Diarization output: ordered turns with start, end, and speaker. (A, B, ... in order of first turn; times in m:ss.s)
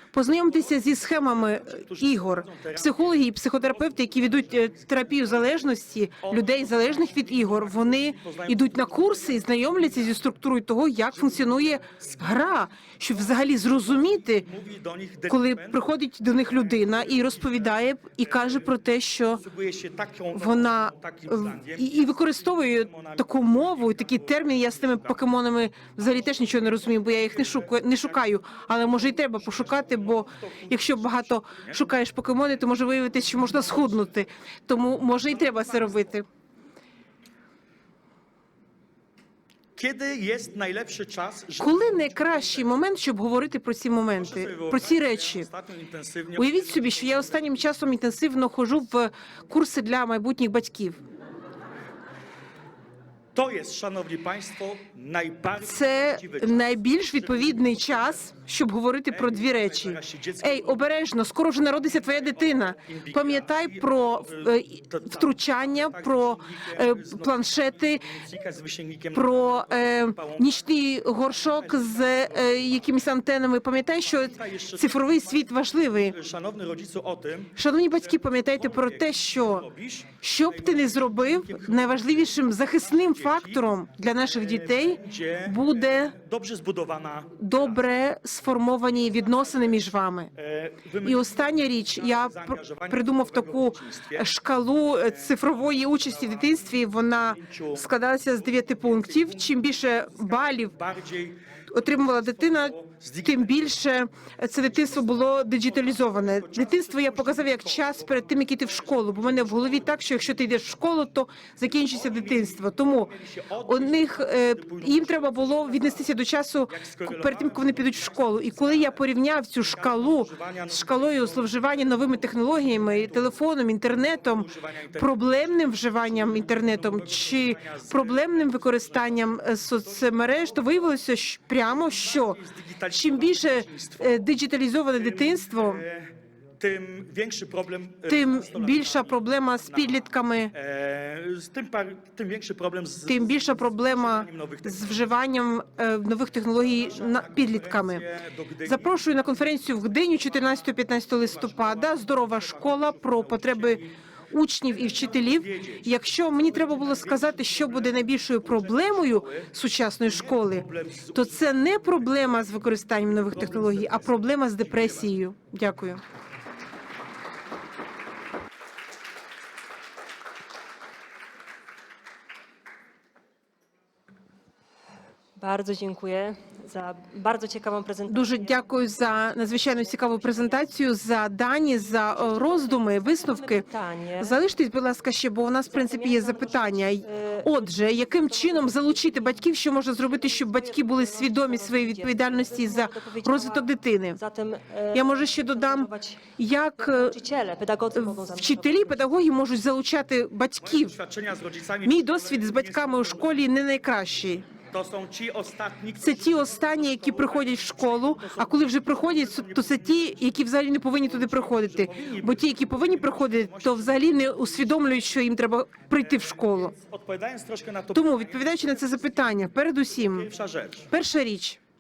0:00.1-0:14.5 A
0:00.4-0:05.6 B
0:06.2-0:10.2 B
0:11.1-0:18.7 B
0:15.3-0:19.4 A
0:19.3-0:31.8 B
0:20.3-0:36.3 A
0:33.5-0:34.0 B
0:35.3-0:36.1 B
0:39.8-0:42.8 B
0:41.6-0:45.5 A
0:44.2-0:47.6 B
0:46.4-0:51.0 A
0:53.4-0:58.3 B
0:55.6-1:08.0 A
0:59.1-1:00.8 B
1:02.0-1:10.5 B
1:09.1-1:16.2 A
1:11.3-1:12.3 B
1:14.0-1:23.6 B
1:17.6-1:19.7 A
1:20.2-1:26.2 A
1:24.2-1:27.8 B
1:27.4-1:30.3 A
1:29.0-1:29.8 B
1:30.4-1:34.3 B
1:31.0-1:40.7 A
1:35.0-1:43.8 B
1:41.7-1:53.1 A
1:44.6-1:50.3 B
1:51.8-1:56.1 B
1:53.7-2:15.8 A
1:56.7-1:59.0 B
1:59.7-2:03.3 B
2:04.2-2:10.9 B
2:11.6-2:14.3 B
2:15.0-2:20.0 B
2:18.1-2:20.5 A
2:20.5-2:24.9 B
2:23.1-2:28.1 A
2:26.6-2:29.0 B
2:28.6-2:46.0 A
2:30.4-2:33.9 B
2:34.6-2:42.5 B
2:43.1-2:45.2 B
2:55.4-3:00.7 C
2:58.1-3:03.7 A
3:01.7-3:04.4 C
3:04.2-3:14.2 A
3:05.6-3:16.2 C
3:14.9-3:17.2 A
3:16.8-3:19.1 C
3:17.9-3:21.0 A
3:20.6-3:23.3 B
3:21.8-3:24.5 A
3:24.7-3:30.3 B
3:26.0-3:36.8 A
3:31.0-3:34.8 B
3:35.9-3:40.9 B
3:37.9-3:40.3 A
3:40.9-3:41.6 A